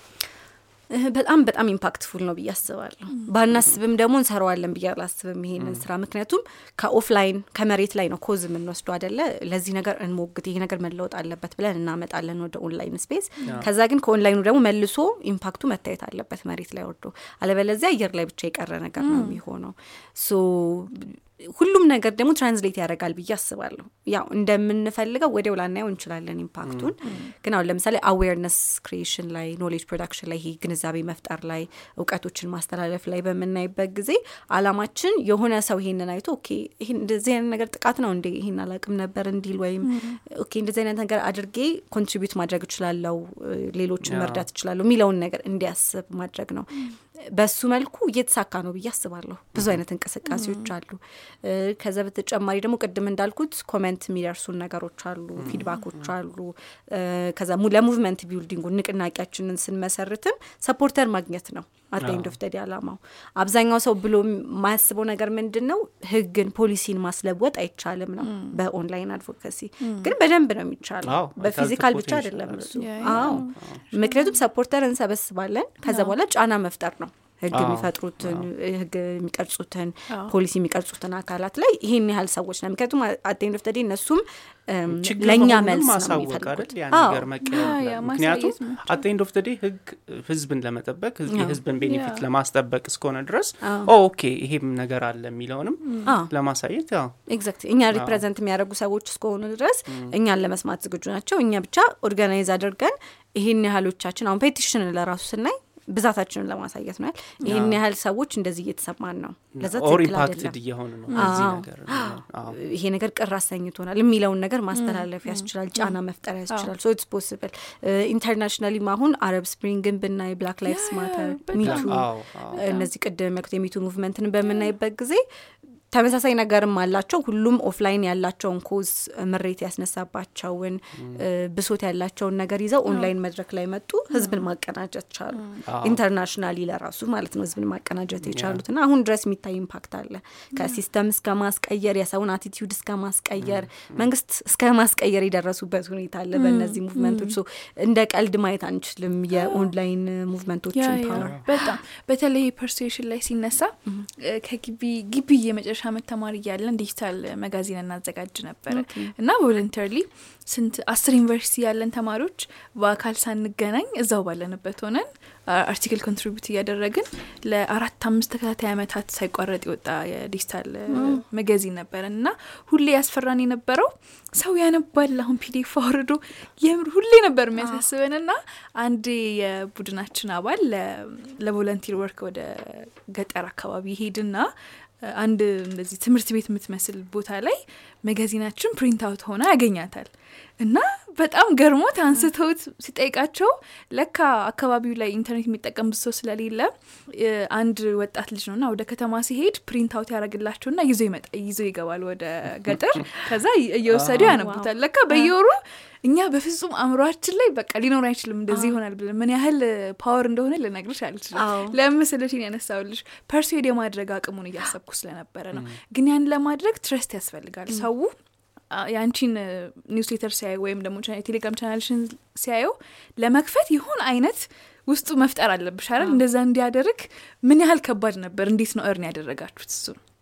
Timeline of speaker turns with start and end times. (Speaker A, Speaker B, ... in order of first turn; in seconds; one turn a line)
Speaker A: 0.9-87.3
Speaker B: 19.0-19.4
Speaker C: 26.6-26.9
Speaker B: 27.0-27.3
Speaker B: 39.8-40.2
Speaker C: 44.0-44.5
Speaker C: 49.5-49.8
Speaker B: 50.3-50.6
Speaker C: 55.4-56.1
Speaker C: 62.0-62.4
Speaker B: 68.2-68.5
Speaker B: 69.8-70.1
Speaker C: 71.0-73.8
Speaker B: 72.8-74.4
Speaker B: 75.8-76.1
Speaker C: 77.5-78.5
Speaker C: 84.9-97.2
Speaker B: 87.4-89.0
Speaker A: 91.3-91.6
Speaker B: 91.8-92.2
Speaker A: 93.6-93.9
Speaker B: 95.8-96.1
Speaker A: 96.0-96.3
Speaker A: 97.3-110.6
Speaker C: 97.9-98.2
Speaker C: 99.9-100.1
Speaker C: 107.4-107.8
Speaker C: 109.5-112.6
Speaker B: 111.1-111.4
Speaker A: 111.1-125.2
Speaker B: 114.8-116.0
Speaker B: 120.7-122.9
Speaker C: 121.6-122.6
Speaker A: 125.9-151.4
Speaker C: 130.9-131.2
Speaker C: 135.7-136.0
Speaker C: 138.2-138.6
Speaker C: 143.4-144.1
Speaker B: 146.3-147.3
Speaker B: 149.3-149.7
Speaker B: 150.7-184.5
Speaker C: 151.1-151.4
Speaker A: 158.7-159.1
Speaker A: 170.9-171.2
Speaker B: 185.0-218.1
Speaker C: 203.9-204.4
Speaker A: 204.2-205.3
Speaker A: 211.3-211.8
Speaker C: 215.5-215.8
Speaker B: 218.7-230.0